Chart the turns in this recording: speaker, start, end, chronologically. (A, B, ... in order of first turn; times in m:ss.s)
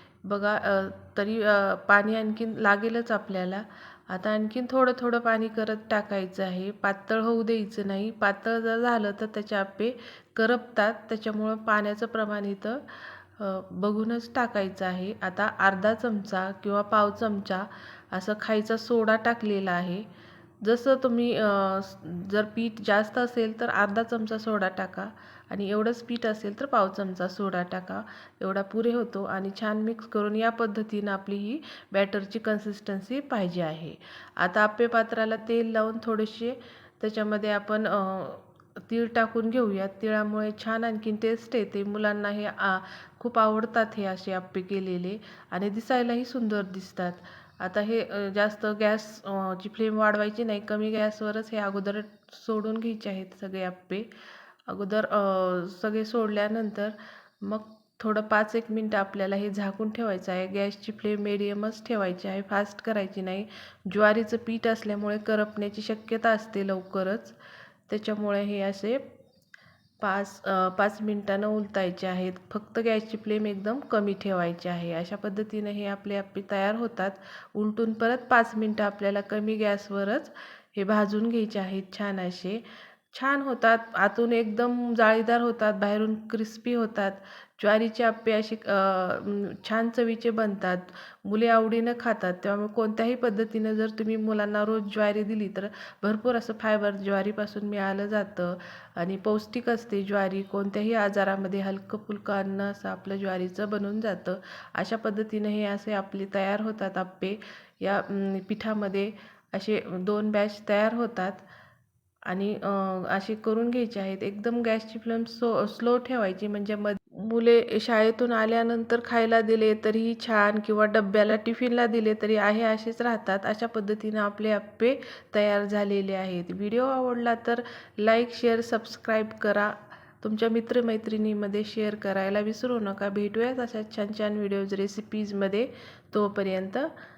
0:00.3-0:20.1 A
0:20.6-0:54.1 A
0:54.7-1:07.4 A
1:07.9-1:09.0 A
1:10.0-1:22.6 A
1:23.1-1:51.4 A
1:52.3-2:16.9 A